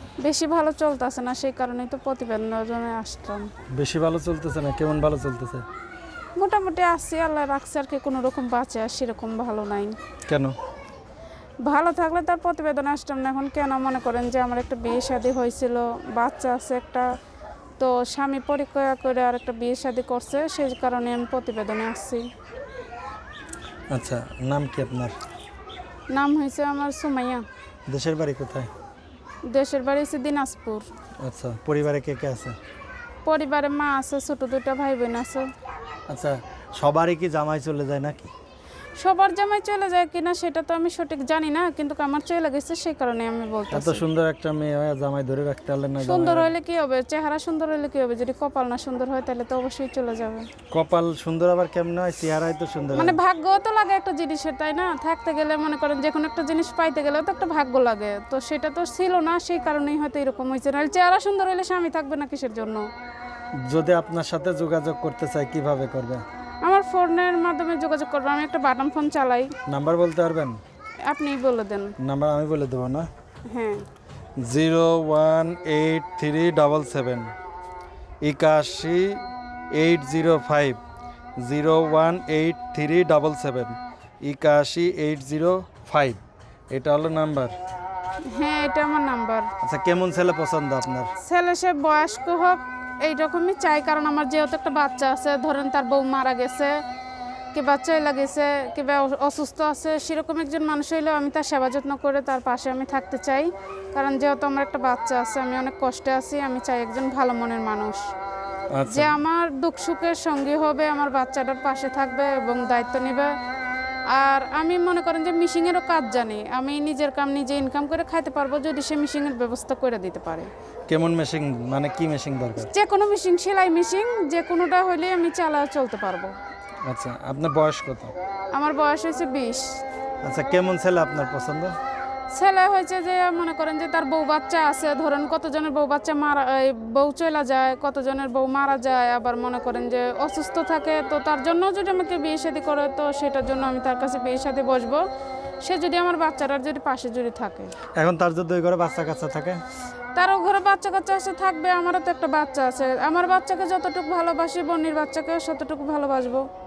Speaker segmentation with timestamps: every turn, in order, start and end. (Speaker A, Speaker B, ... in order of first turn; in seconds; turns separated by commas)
Speaker A: 0.2-3.5, Speaker B: 3.7-5.6, Speaker A: 6.4-9.9, Speaker B: 10.3-10.5, Speaker A: 11.6-17.1, Speaker A: 17.8-22.2, Speaker B: 23.9-25.1, Speaker A: 26.1-27.4, Speaker B: 27.9-28.7, Speaker A: 29.5-30.9, Speaker B: 31.2-32.5, Speaker A: 33.2-35.5, Speaker B: 36.1-38.3, Speaker A: 39.0-44.0, Speaker B: 43.7-46.5, Speaker A: 46.0-50.5, Speaker B: 50.7-53.2, Speaker A: 52.9-62.8, Speaker B: 63.6-66.2, Speaker A: 66.6-69.5, Speaker B: 69.7-70.6, Speaker A: 71.1-71.9, Speaker B: 72.0-73.1, Speaker A: 73.5-73.8, Speaker B: 74.4-77.3, Speaker B: 78.2-79.2, Speaker B: 79.7-80.8, Speaker B: 81.4-86.2, Speaker B: 86.7-87.5, Speaker A: 88.2-89.5, Speaker B: 89.6-91.1, Speaker A: 91.2-96.8, Speaker A: 97.5-108.1, Speaker B: 108.7-109.2, Speaker A: 108.9-113.3, Speaker A: 114.1-120.5, Speaker B: 120.9-122.7, Speaker A: 122.6-126.3, Speaker B: 126.8-128.1, Speaker A: 128.5-129.7, Speaker B: 130.2-131.7, Speaker A: 132.3-145.0, Speaker A: 145.6-147.7, Speaker B: 148.0-149.6, Speaker A: 150.2-156.4